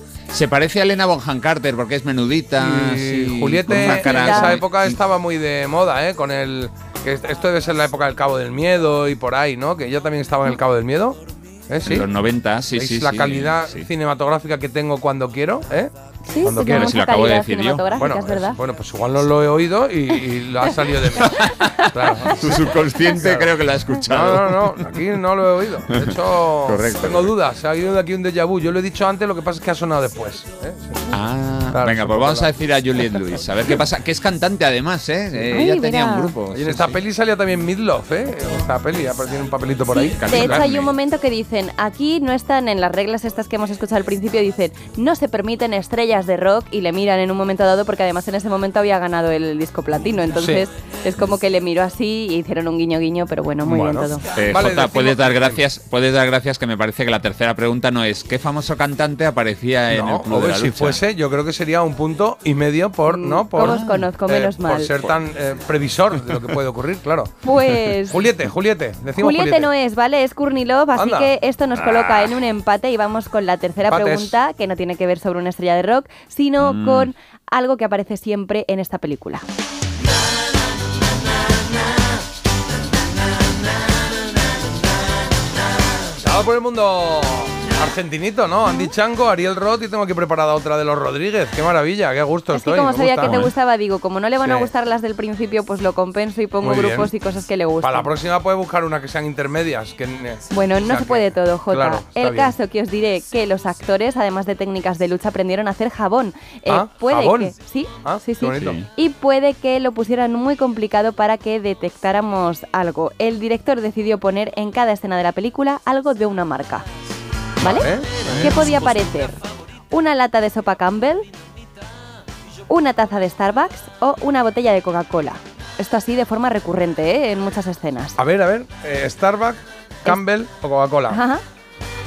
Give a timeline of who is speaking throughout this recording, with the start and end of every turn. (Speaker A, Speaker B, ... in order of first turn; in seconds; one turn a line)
Speaker A: 0.3-5.0
Speaker B: 2.6-12.1
Speaker C: 3.7-4.6
Speaker A: 11.8-13.9
Speaker B: 12.7-17.0
Speaker C: 16.3-18.6
Speaker A: 16.6-17.8
Speaker B: 17.9-31.0
Speaker C: 21.1-22.6
Speaker A: 21.3-24.9
Speaker A: 25.9-27.3
Speaker A: 31.1-37.0
Speaker B: 31.7-32.5
Speaker C: 35.5-36.3
Speaker B: 36.5-40.7
Speaker C: 39.9-54.2
Speaker A: 40.2-40.9
Speaker B: 50.3-50.6
Speaker B: 53.6-55.6
Speaker A: 54.3-61.0
Speaker B: 59.9-67.3
Speaker C: 63.1-65.1
Speaker A: 63.6-64.0
Speaker C: 67.4-68.2
Speaker B: 68.0-69.7
Speaker C: 69.2-79.4
Speaker B: 71.0-71.3
Speaker A: 71.8-72.4
Speaker B: 73.9-74.3
Speaker A: 76.6-77.1
Speaker B: 86.2-93.4
Speaker C: 92.5-98.1
Speaker A: 93.2-93.5
Speaker B: 94.4-94.7
Speaker B: 96.6-97.1
Speaker B: 97.8-102.5
Speaker C: 100.5-116.8
Speaker B: 106.7-108.8
Speaker A: 108.6-108.8
Speaker C: 117.6-121.2
Speaker B: 117.6-118.6
Speaker C: 122.7-128.2
Speaker B: 128.2-131.2
Speaker C: 131.1-131.4